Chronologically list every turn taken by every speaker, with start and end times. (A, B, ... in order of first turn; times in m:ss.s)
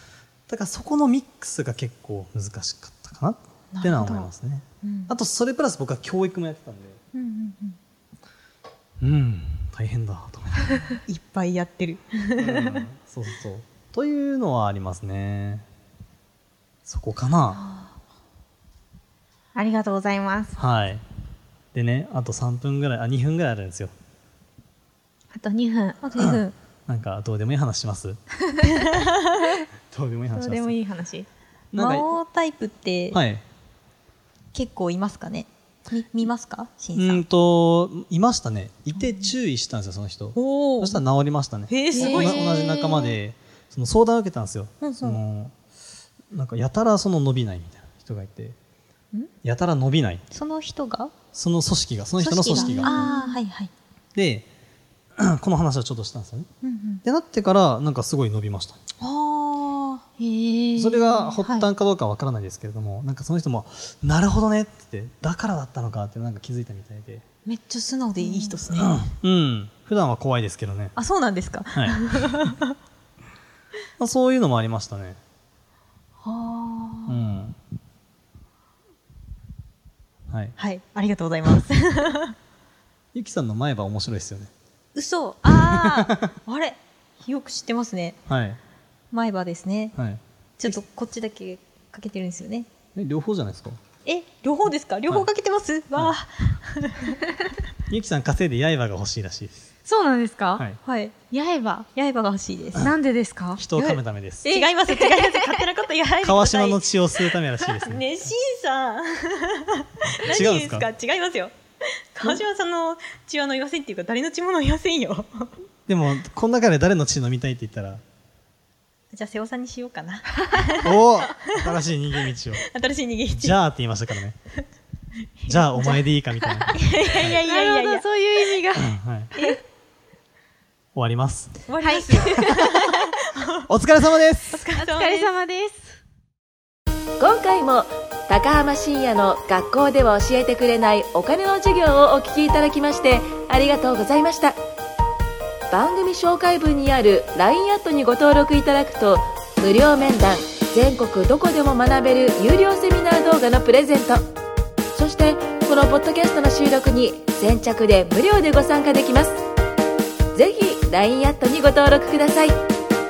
0:00.5-0:07.0 A
0:03.7-0:04.3 B
0:04.8-0:05.1 B
0:07.1-0:07.8 B
0:09.0-0:10.8 A
0:11.1-0:12.8 B
0:12.4-0:15.6 A
0:16.9-0:17.6 A
0:19.6-0:20.6 C
0:20.6-0:21.0 A
0:21.7-0:23.9 A
0:25.3-0:26.0 C
0:26.0-0:26.6 B
0:26.2-0:28.2 A
0:29.9-0:30.8 A
0:30.3-0:31.3 C
0:31.7-0:32.1 A
0:31.8-0:33.2 B
0:33.1-0:33.4 A
0:34.5-0:37.2 B
0:37.0-0:45.5 A
0:40.4-0:41.0 B
0:41.7-0:42.8 B
0:42.0-0:42.6 C
0:44.8-0:45.2 B
0:46.3-0:48.6 A
0:49.4-0:50.2 A
0:50.3-0:51.1 B
0:51.3-0:53.1 A
0:52.2-0:53.7 B
0:52.6-0:53.4 C
0:54.2-0:54.5 A
0:55.2-0:56.5 A
0:56.6-0:57.0 B
0:57.0-0:58.8 A
0:59.0-1:00.0 B
1:00.2-1:01.7 C
1:00.8-1:07.2 A
1:07.5-1:09.0 B
1:08.2-1:08.7 C
1:08.8-1:11.0 A
1:11.0-1:12.8 B
1:11.7-1:12.0 A
1:14.0-1:15.2 A
1:16.3-1:17.0 B
1:16.4-1:17.0 C
1:17.1-1:17.6 A
1:20.3-1:20.6 A
1:20.6-1:22.4 B
1:23.1-1:24.5 A
1:25.0-1:28.2 B
1:25.5-1:26.3 A
1:28.3-1:28.6 A
1:29.1-1:30.0 B
1:30.0-1:30.8 A
1:30.6-1:32.7 B
1:33.0-1:33.8 A
1:34.0-1:37.2 B
1:37.9-1:39.7 A
1:39.8-1:40.6 C
1:40.6-1:40.8 A
1:40.8-1:41.2 B
1:41.3-1:41.9 C
1:41.9-1:42.9 B
1:42.8-1:43.6 C
1:43.6-1:44.5 A
1:43.8-1:55.6 B
1:44.9-1:45.4 C
1:46.2-1:48.0 A
1:50.3-1:50.9 A
1:55.9-1:58.0 A
1:59.1-2:01.4 B
2:00.8-2:02.6 A
2:02.6-2:03.6 B
2:03.3-2:04.4 A
2:05.5-2:07.4 A
2:05.8-2:06.0 C
2:06.7-2:09.6 C
2:06.7-2:08.6 B
2:08.8-2:09.3 A
2:11.0-2:11.6 A
2:11.7-2:13.5 B
2:11.8-2:12.6 C
2:13.7-2:14.6 A
2:14.5-2:15.3 B
2:14.8-2:16.0 C
2:17.2-2:24.6 D
2:25.7-2:34.2 D
2:34.9-2:39.4 D
2:40.3-2:42.6 D